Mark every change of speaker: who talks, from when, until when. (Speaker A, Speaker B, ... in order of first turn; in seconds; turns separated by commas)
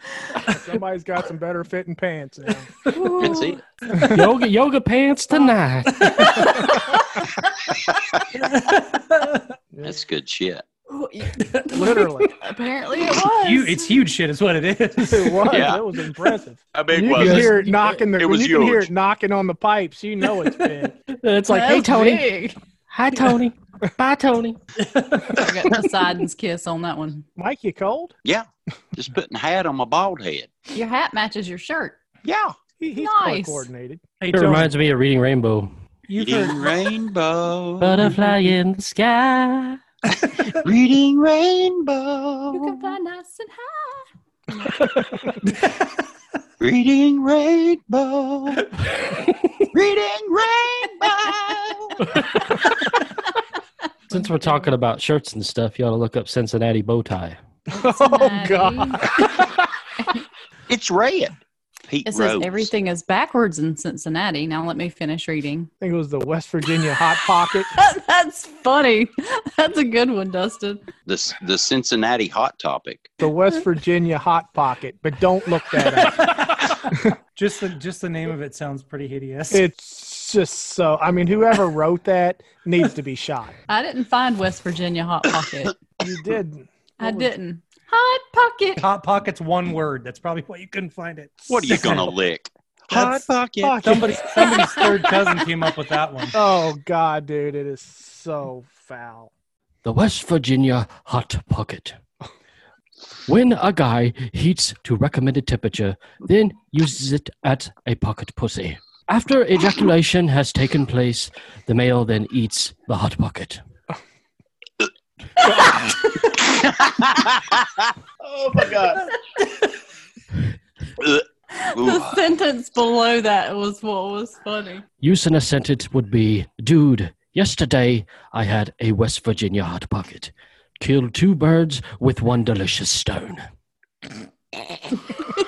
Speaker A: 0.4-2.7, Speaker B: 2.9-4.1, Speaker C: 3.2-3.6, Speaker D: 4.0-6.4, Speaker E: 5.9-6.4, Speaker B: 6.2-7.5, Speaker E: 8.4-9.4, Speaker A: 9.7-10.0, Speaker C: 9.8-10.6, Speaker B: 10.9-13.9, Speaker E: 11.4-11.7, Speaker A: 11.7-12.3, Speaker E: 13.2-15.5, Speaker A: 15.0-21.0, Speaker C: 15.5-15.8, Speaker C: 16.7-18.9, Speaker D: 17.2-17.6, Speaker E: 20.4-20.7, Speaker D: 21.1-22.2, Speaker B: 21.5-22.6, Speaker D: 22.9-24.6, Speaker E: 24.8-25.4, Speaker B: 25.3-27.2, Speaker A: 27.4-28.1, Speaker C: 28.2-30.5, Speaker B: 30.7-32.0, Speaker C: 32.2-32.6, Speaker A: 32.8-34.0, Speaker B: 33.0-33.7, Speaker E: 34.2-34.7, Speaker D: 34.3-35.7, Speaker E: 36.1-36.7, Speaker C: 36.2-38.2, Speaker D: 37.8-39.8, Speaker C: 40.3-42.9, Speaker B: 42.5-44.9, Speaker C: 46.6-48.7, Speaker C: 49.7-52.1, Speaker B: 54.1-54.7, Speaker D: 54.1-57.4, Speaker B: 57.7-59.5, Speaker A: 57.7-59.6, Speaker C: 60.7-61.4, Speaker C: 61.9-62.7, Speaker B: 62.1-65.7, Speaker A: 65.8-67.7, Speaker B: 67.7-70.8, Speaker C: 71.1-73.2, Speaker A: 73.2-77.1, Speaker E: 76.0-79.7, Speaker A: 79.5-83.5, Speaker B: 83.7-85.8, Speaker A: 86.0-87.3, Speaker B: 87.0-88.8, Speaker E: 88.8-92.1, Speaker C: 91.5-93.9, Speaker E: 92.9-93.2, Speaker A: 93.6-94.9, Speaker E: 93.8-96.4, Speaker A: 96.3-99.3, Speaker D: 99.8-102.0, Speaker D: 103.3-113.6, Speaker C: 115.5-116.0, Speaker C: 116.5-119.1, Speaker C: 121.0-122.2, Speaker B: 121.5-124.8, Speaker D: 125.0-133.4